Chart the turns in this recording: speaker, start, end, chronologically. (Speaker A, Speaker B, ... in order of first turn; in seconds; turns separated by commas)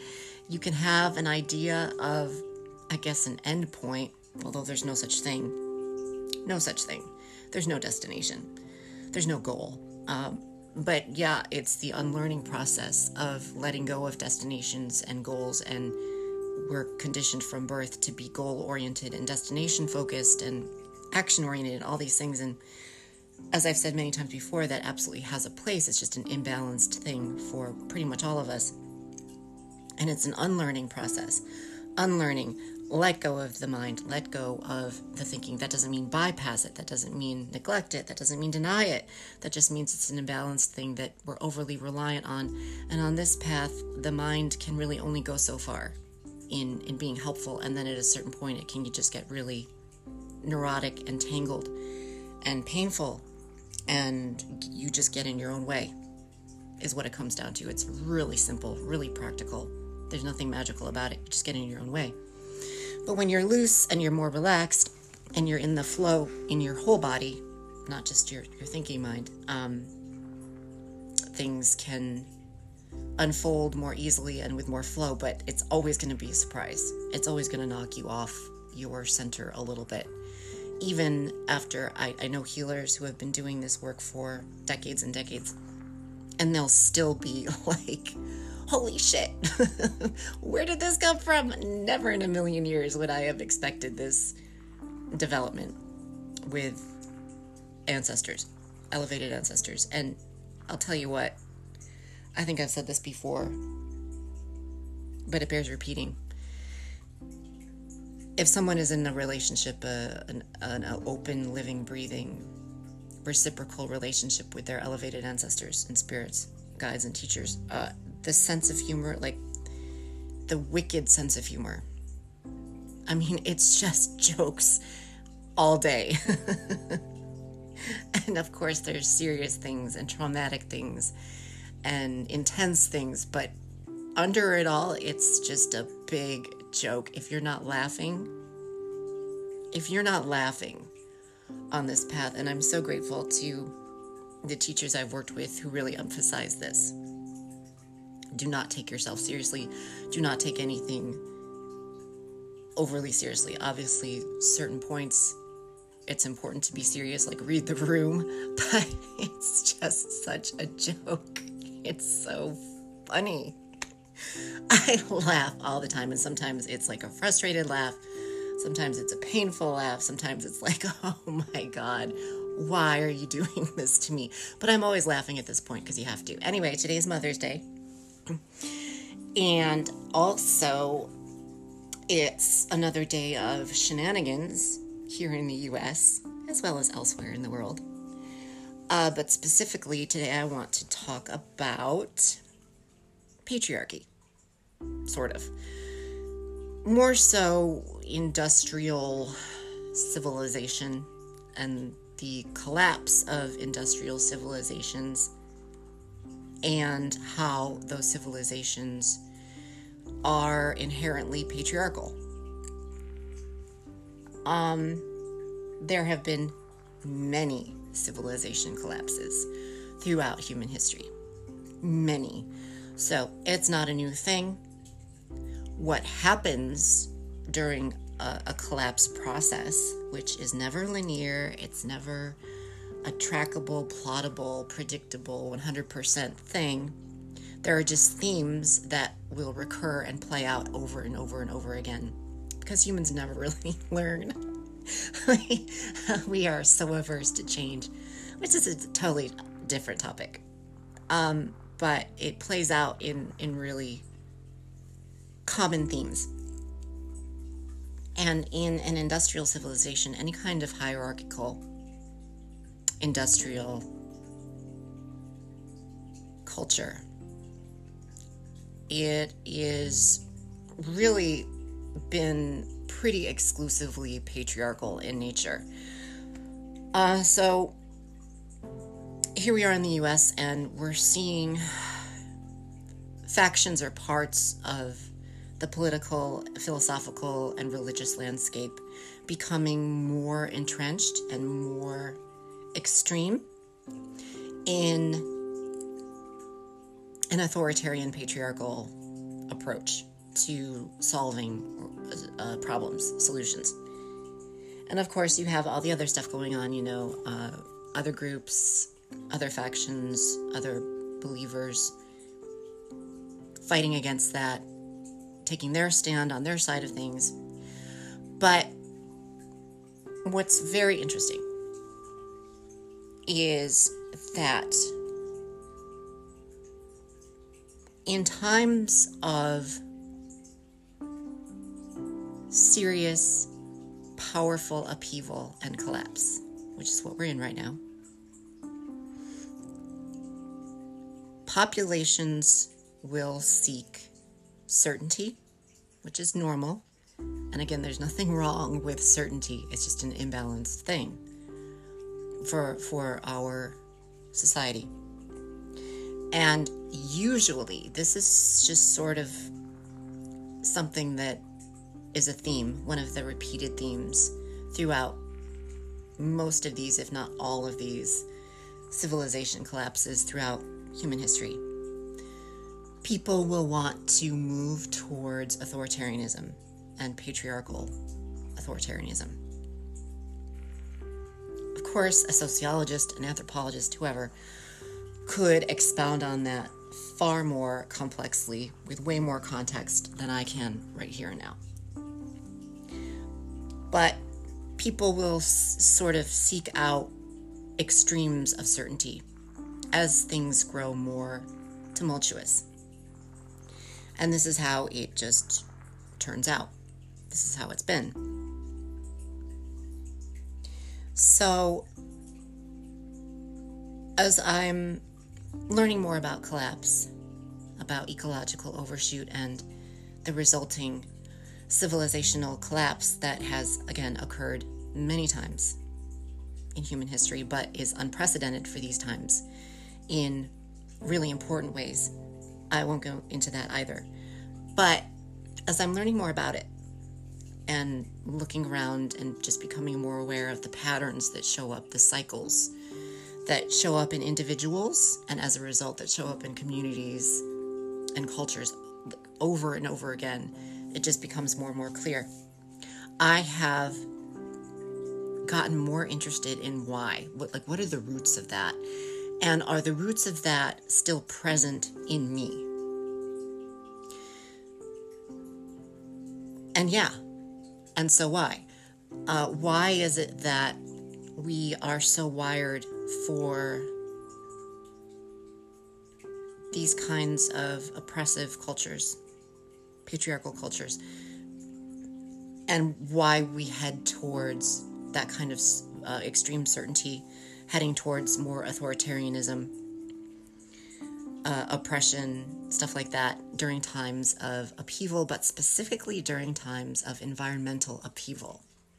Speaker A: 0.5-5.6, Speaker A: 6.4-8.5, Speaker A: 9.1-16.0, Speaker A: 16.5-22.6, Speaker A: 23.5-28.7, Speaker A: 30.0-31.4, Speaker A: 32.0-46.0, Speaker A: 46.5-49.7, Speaker A: 50.4-51.7, Speaker A: 52.4-53.2, Speaker A: 53.9-55.9, Speaker A: 56.8-62.2, Speaker A: 63.0-69.9, Speaker A: 71.3-72.3, Speaker A: 73.2-80.1, Speaker A: 80.8-85.5, Speaker A: 86.4-94.3, Speaker A: 95.1-95.8, Speaker A: 96.4-96.9, Speaker A: 97.9-101.4, Speaker A: 102.3-103.6, Speaker A: 105.3-106.2, Speaker A: 108.4-112.5, Speaker A: 113.2-119.4, Speaker A: 120.5-121.8, Speaker A: 123.1-124.8, Speaker A: 125.6-127.0, Speaker A: 127.8-131.1, Speaker A: 131.8-133.5, Speaker A: 134.2-138.3, Speaker A: 139.7-140.9, Speaker A: 141.7-143.8, Speaker A: 144.4-146.9, Speaker A: 148.3-151.2, Speaker A: 152.8-155.4, Speaker A: 156.1-163.6, Speaker A: 164.2-168.0, Speaker A: 168.6-177.7, Speaker A: 178.3-181.1, Speaker A: 182.1-187.8, Speaker A: 188.9-192.4, Speaker A: 193.4-194.1, Speaker A: 195.1-195.5, Speaker A: 196.8-205.3, Speaker A: 206.6-209.2, Speaker A: 210.2-212.2, Speaker A: 214.4-215.1, Speaker A: 215.8-219.5, Speaker A: 220.0-221.1, Speaker A: 221.8-224.6, Speaker A: 225.7-232.4, Speaker A: 233.0-237.0, Speaker A: 237.6-250.4, Speaker A: 251.1-254.1, Speaker A: 255.4-256.3, Speaker A: 258.2-261.6, Speaker A: 263.0-263.9, Speaker A: 266.4-267.1, Speaker A: 268.9-270.2, Speaker A: 270.8-271.5, Speaker A: 272.1-275.7, Speaker A: 276.9-277.8, Speaker A: 279.3-282.1, Speaker A: 283.2-292.2, Speaker A: 292.7-293.5, Speaker A: 294.6-295.3, Speaker A: 297.3-298.9, Speaker A: 299.5-303.8, Speaker A: 304.9-311.9, Speaker A: 313.6-314.7, Speaker A: 315.4-317.4, Speaker A: 318.4-318.8, Speaker A: 320.2-321.4, Speaker A: 323.3-324.9, Speaker A: 328.1-329.8, Speaker A: 332.5-333.5, Speaker A: 334.1-337.8, Speaker A: 341.4-344.1, Speaker A: 344.7-345.4, Speaker A: 346.0-346.8, Speaker A: 347.5-351.2, Speaker A: 352.4-353.8, Speaker A: 354.3-354.9, Speaker A: 356.3-359.5, Speaker A: 360.6-361.4, Speaker A: 362.1-365.2, Speaker A: 366.2-368.2, Speaker A: 368.9-371.6, Speaker A: 373.0-377.9, Speaker A: 378.6-379.4, Speaker A: 381.8-384.3, Speaker A: 385.2-391.6, Speaker A: 393.9-394.2, Speaker A: 394.8-397.1, Speaker A: 397.8-399.2, Speaker A: 399.9-402.6, Speaker A: 404.2-405.7, Speaker A: 406.2-406.7, Speaker A: 407.3-408.2, Speaker A: 411.1-411.9, Speaker A: 414.2-415.0, Speaker A: 415.7-417.1, Speaker A: 417.8-419.6, Speaker A: 420.2-421.1, Speaker A: 421.7-425.8, Speaker A: 426.7-429.4, Speaker A: 430.1-432.1, Speaker A: 432.7-434.1, Speaker A: 434.7-435.1, Speaker A: 435.7-436.7, Speaker A: 437.7-442.7, Speaker A: 443.4-447.4, Speaker A: 448.1-452.3, Speaker A: 453.2-454.1, Speaker A: 455.4-458.8, Speaker A: 459.4-462.7, Speaker A: 466.8-467.1, Speaker A: 468.0-468.7, Speaker A: 469.3-470.8, Speaker A: 471.4-473.9, Speaker A: 476.7-479.2, Speaker A: 480.0-481.0, Speaker A: 482.7-489.7, Speaker A: 491.4-498.6